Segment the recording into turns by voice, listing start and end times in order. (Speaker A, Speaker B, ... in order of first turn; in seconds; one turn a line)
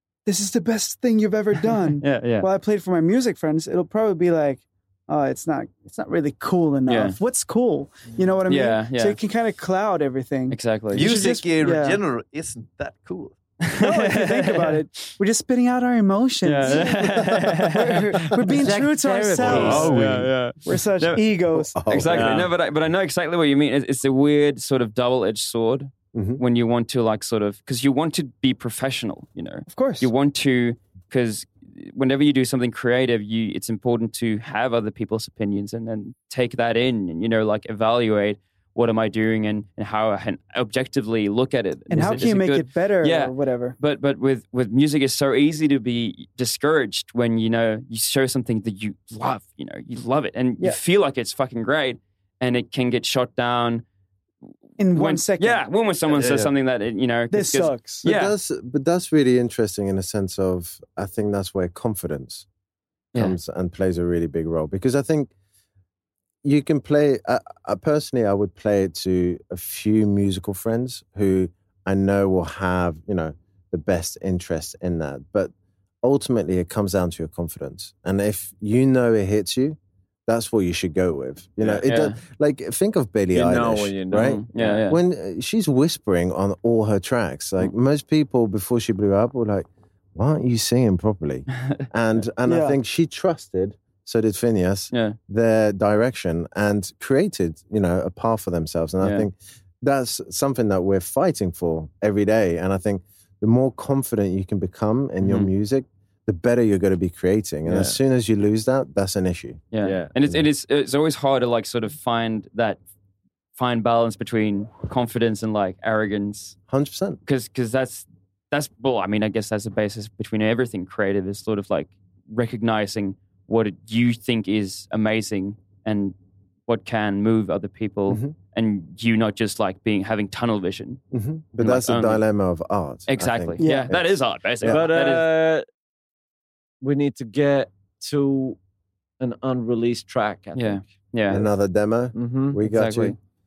Speaker A: 0.3-12.0
Speaker B: 1.8-2.5
Speaker B: 6.9-7.2
Speaker B: 8.5-9.2
Speaker B: 10.5-11.1
Speaker C: 10.9-13.3
Speaker B: 13.7-14.8
Speaker A: 13.8-20.0
Speaker B: 16.4-21.2
Speaker D: 18.7-20.0
Speaker C: 19.7-20.3
Speaker A: 20.6-21.7
Speaker E: 21.5-22.4
Speaker B: 21.8-53.8
Speaker D: 22.1-22.5
Speaker E: 26.1-26.4
Speaker A: 29.7-30.1
Speaker A: 41.9-43.8
Speaker A: 54.8-55.6
Speaker B: 54.9-58.3
Speaker C: 56.1-56.5
Speaker A: 57.3-58.0
Speaker E: 58.0-62.5
Speaker E: 63.1-65.3
Speaker E: 66.4-75.5
Speaker E: 76.0-109.6
Speaker D: 81.6-81.9
Speaker B: 81.9-82.2
Speaker D: 83.3-84.8
Speaker B: 84.1-85.0
Speaker A: 92.5-92.8
Speaker B: 94.9-95.2
Speaker B: 99.0-99.3
Speaker B: 105.2-105.5
Speaker D: 107.7-108.0
Speaker B: 109.7-112.8
Speaker D: 109.8-110.1
Speaker B: 113.6-116.6
Speaker E: 116.7-117.2
Speaker B: 117.3-126.2
Speaker B: 126.7-131.0
Speaker E: 128.1-128.3
Speaker E: 131.1-134.8
Speaker B: 131.6-132.2
Speaker B: 133.1-135.3
Speaker A: 133.6-133.9
Speaker D: 134.7-135.7
Speaker D: 136.8-138.6
Speaker D: 139.2-140.8
Speaker B: 140.6-141.4
Speaker E: 141.3-143.2
Speaker D: 142.2-142.6
Speaker B: 142.7-143.2